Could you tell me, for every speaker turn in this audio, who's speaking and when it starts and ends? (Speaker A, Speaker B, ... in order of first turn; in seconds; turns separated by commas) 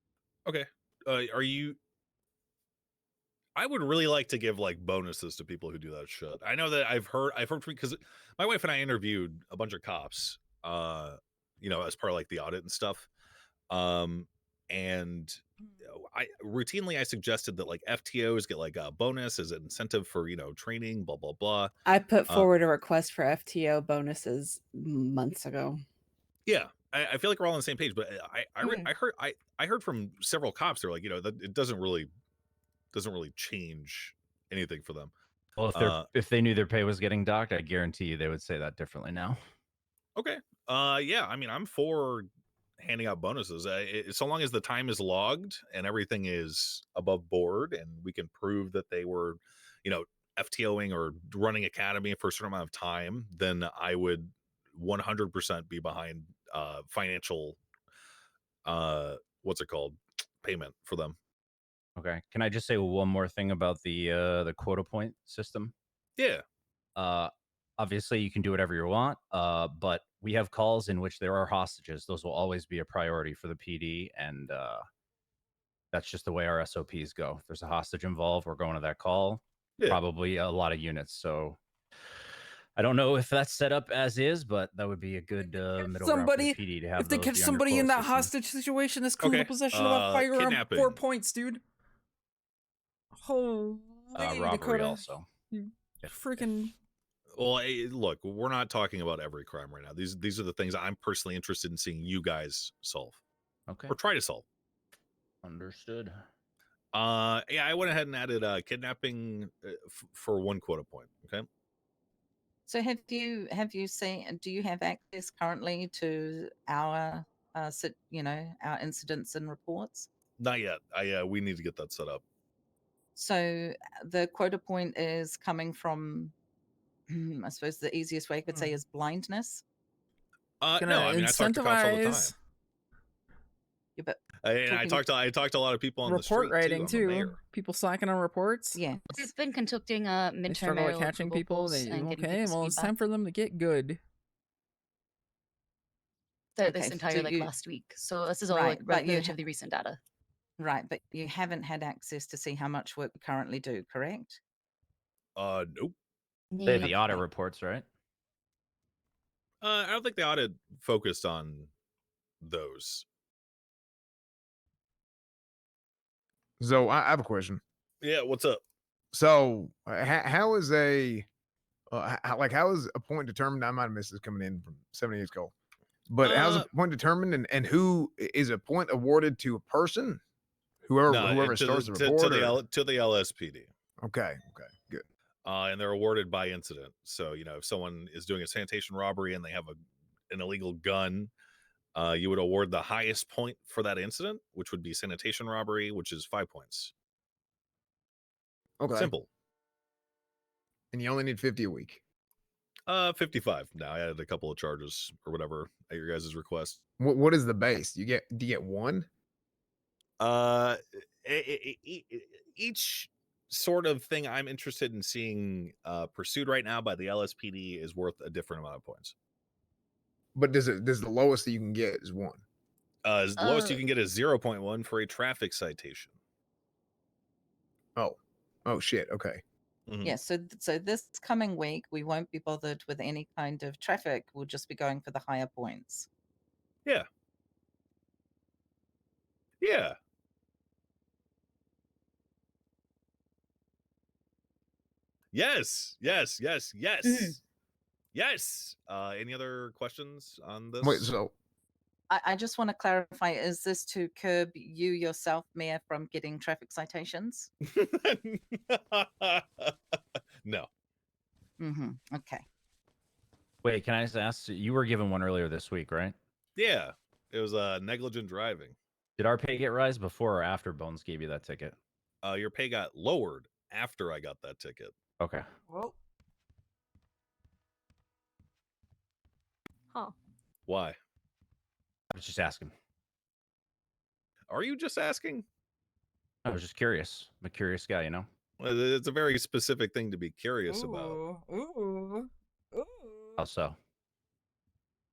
Speaker A: 0.5-1.8, Speaker A: 3.5-13.1, Speaker A: 13.7-21.7, Speaker B: 21.9-25.8, Speaker A: 26.4-32.1, Speaker A: 32.9-35.1, Speaker C: 35.5-39.4, Speaker A: 35.7-36.0, Speaker A: 40.1-42.3, Speaker A: 42.8-57.6, Speaker A: 58.6-61.2, Speaker C: 62.0-65.7, Speaker A: 66.2-66.4, Speaker C: 67.0-74.8, Speaker C: 75.9-81.6, Speaker C: 82.8-88.3, Speaker D: 85.8-91.6, Speaker A: 89.2-91.0, Speaker D: 93.2-96.7, Speaker C: 94.1-95.3, Speaker C: 96.0-96.6, Speaker A: 97.3-103.2, Speaker C: 103.7-104.0, Speaker A: 103.9-104.4, Speaker C: 105.4-106.2, Speaker A: 106.9-111.4, Speaker E: 112.7-120.1, Speaker A: 120.4-122.2, Speaker E: 123.2-126.3, Speaker E: 127.1-129.6, Speaker A: 130.6-132.3, Speaker D: 130.8-132.2, Speaker E: 134.0-135.0, Speaker A: 134.4-137.3, Speaker D: 136.1-138.8, Speaker E: 138.7-139.3, Speaker F: 139.1-143.0, Speaker D: 140.5-144.0, Speaker F: 146.6-150.0, Speaker E: 146.7-147.5, Speaker E: 148.5-149.4, Speaker E: 150.6-154.4, Speaker A: 155.3-155.9, Speaker F: 156.5-156.9, Speaker C: 156.7-157.8, Speaker A: 159.6-161.7, Speaker A: 162.4-163.1, Speaker G: 166.6-167.6, Speaker A: 168.0-168.6, Speaker G: 169.1-171.2, Speaker G: 171.9-175.5, Speaker G: 176.1-180.2, Speaker A: 176.2-176.7, Speaker G: 180.8-182.6, Speaker A: 181.1-183.7, Speaker G: 184.0-185.0, Speaker A: 185.4-189.8, Speaker A: 190.3-191.3, Speaker A: 191.9-196.9, Speaker G: 198.8-199.1, Speaker A: 198.9-199.3, Speaker G: 200.9-202.0, Speaker A: 202.9-206.8, Speaker G: 207.0-209.1, Speaker A: 210.2-219.1, Speaker G: 220.3-222.4, Speaker A: 223.0-226.2, Speaker F: 223.4-223.8, Speaker G: 227.9-229.4, Speaker A: 229.9-230.1, Speaker E: 230.0-236.1, Speaker A: 239.6-240.0, Speaker A: 245.3-247.4, Speaker A: 248.1-251.1, Speaker G: 250.8-251.3, Speaker E: 252.1-257.5, Speaker A: 257.6-259.7, Speaker E: 261.6-262.4, Speaker C: 263.6-266.1, Speaker A: 266.6-268.8, Speaker C: 269.2-271.7, Speaker A: 272.2-274.9, Speaker C: 275.2-275.4, Speaker A: 280.7-281.0, Speaker C: 282.1-282.7, Speaker A: 284.5-285.4, Speaker C: 286.4-288.3, Speaker A: 288.6-291.2, Speaker D: 290.7-293.4, Speaker C: 293.4-293.8